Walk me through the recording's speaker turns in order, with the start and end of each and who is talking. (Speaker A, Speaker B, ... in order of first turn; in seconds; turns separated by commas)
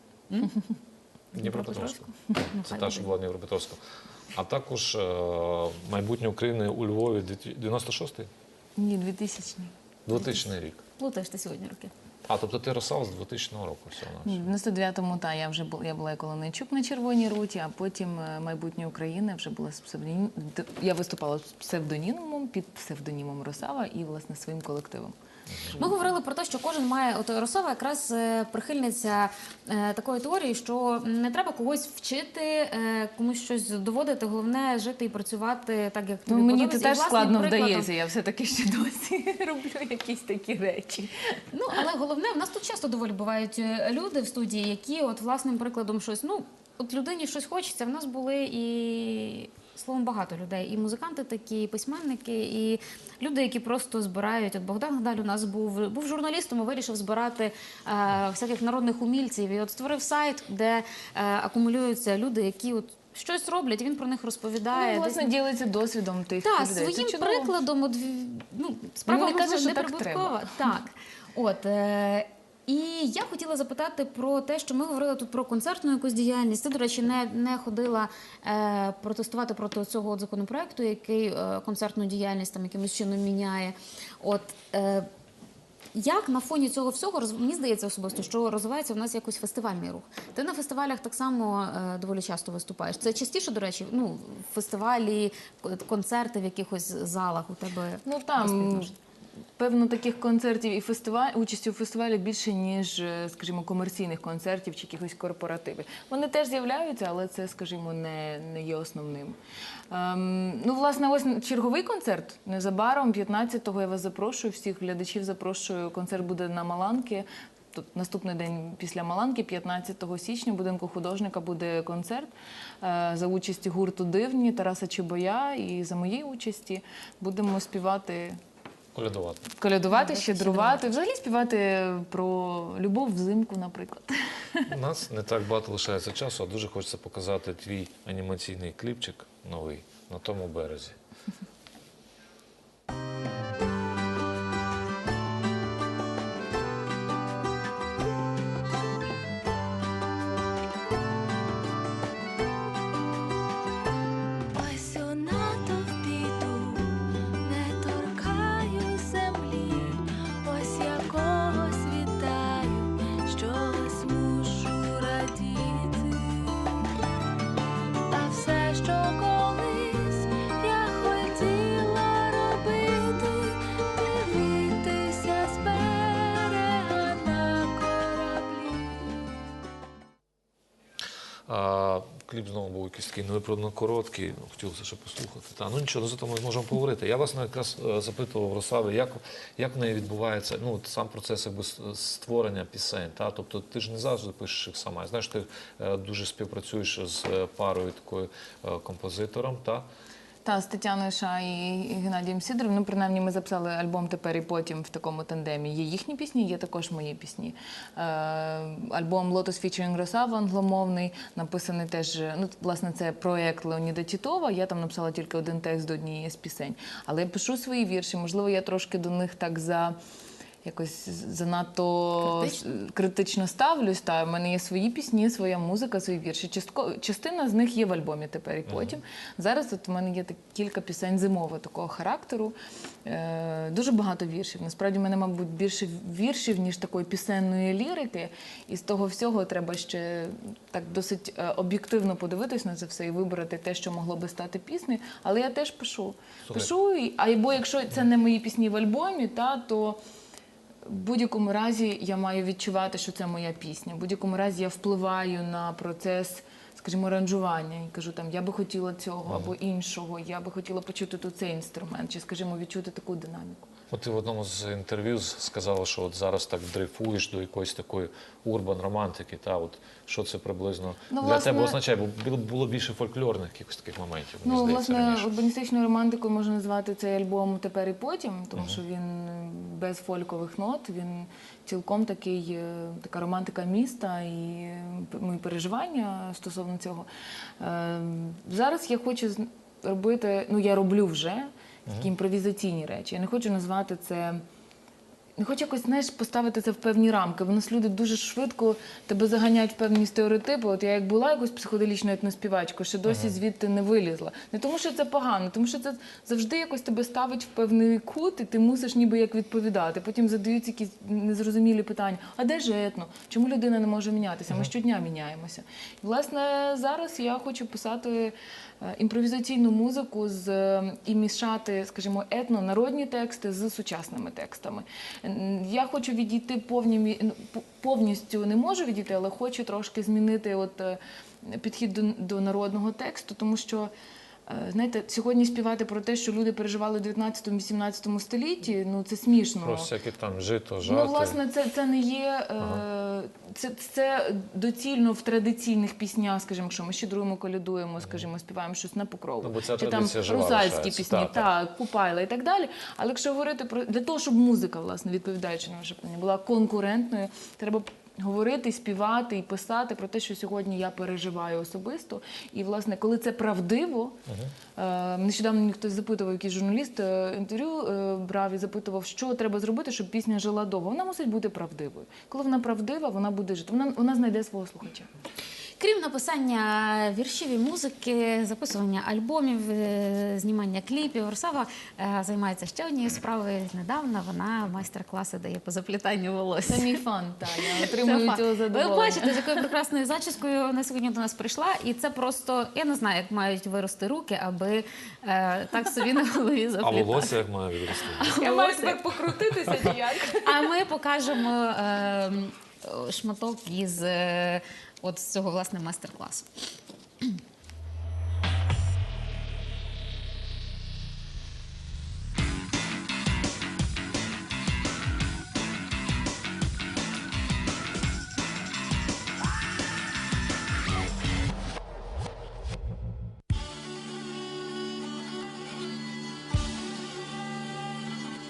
Speaker A: 0.3-0.6, Speaker A: 1.3-3.1, Speaker B: 1.3-3.8, Speaker B: 4.3-8.3, Speaker C: 8.8-9.7, Speaker B: 10.1-10.8, Speaker A: 11.0-11.9, Speaker B: 12.2-14.5, Speaker C: 14.2-25.1, Speaker B: 25.5-25.8, Speaker A: 25.8-37.9, Speaker C: 36.3-41.1, Speaker A: 41.5-65.3, Speaker C: 64.7-67.5, Speaker A: 66.4-85.1, Speaker C: 69.1-70.5, Speaker A: 85.9-98.9, Speaker C: 98.0-98.9, Speaker C: 99.6-109.4, Speaker C: 109.9-128.4, Speaker B: 128.9-129.5, Speaker C: 129.6-134.7, Speaker A: 129.9-130.9, Speaker B: 134.7-141.0, Speaker C: 154.5-166.8, Speaker C: 168.1-179.2, Speaker B: 181.5-199.9, Speaker C: 200.4-219.9, Speaker C: 220.6-232.5, Speaker A: 222.2-222.6, Speaker B: 228.7-229.0, Speaker C: 233.1-250.0, Speaker C: 250.8-263.7, Speaker B: 263.9-275.3, Speaker C: 271.1-271.8, Speaker C: 274.4-287.1, Speaker C: 287.6-294.4, Speaker C: 295.4-333.9, Speaker B: 303.1-303.4, Speaker C: 334.5-339.9, Speaker B: 339.6-341.4, Speaker C: 340.8-364.2, Speaker B: 349.4-351.5, Speaker B: 364.3-364.5, Speaker C: 364.8-375.1, Speaker A: 375.8-387.0, Speaker C: 386.7-389.6, Speaker A: 387.9-397.3, Speaker B: 396.8-398.3, Speaker A: 398.2-399.1, Speaker C: 398.3-400.7, Speaker A: 400.4-406.4